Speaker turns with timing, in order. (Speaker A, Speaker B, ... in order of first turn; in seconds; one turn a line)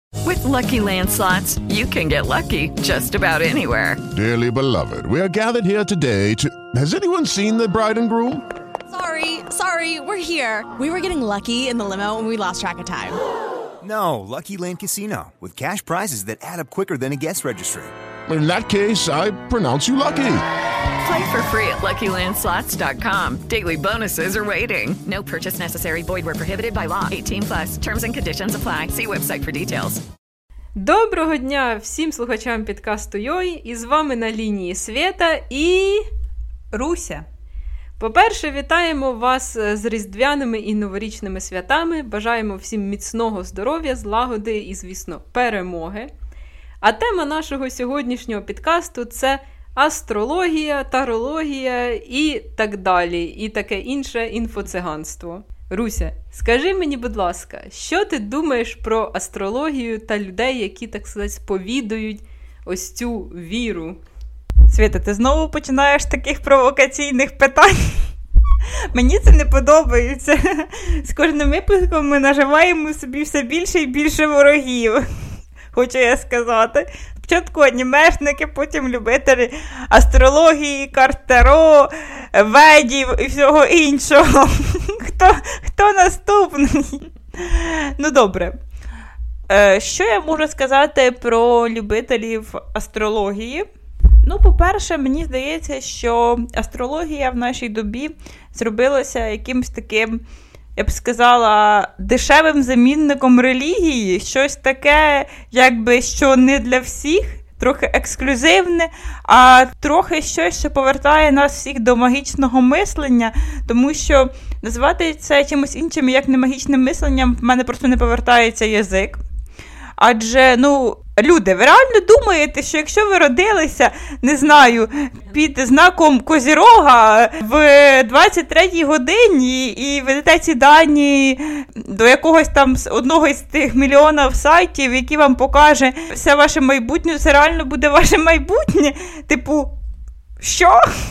Speaker A: 0.2-4.0
Speaker B: 4.1-8.4
Speaker C: 8.9-13.2
Speaker D: 13.8-17.9
Speaker B: 18.3-20.4
Speaker A: 21.0-30.0
Speaker E: 30.8-36.0
Speaker F: 36.7-37.2
Speaker E: 38.0-46.1
Speaker E: 46.8-64.0
Speaker F: 64.7-68.1
Speaker F: 68.9-75.0
Speaker F: 75.7-88.6
Speaker F: 89.5-93.7
Speaker F: 94.2-100.2
Speaker F: 100.8-119.2
Speaker F: 120.0-139.7
Speaker F: 140.4-140.9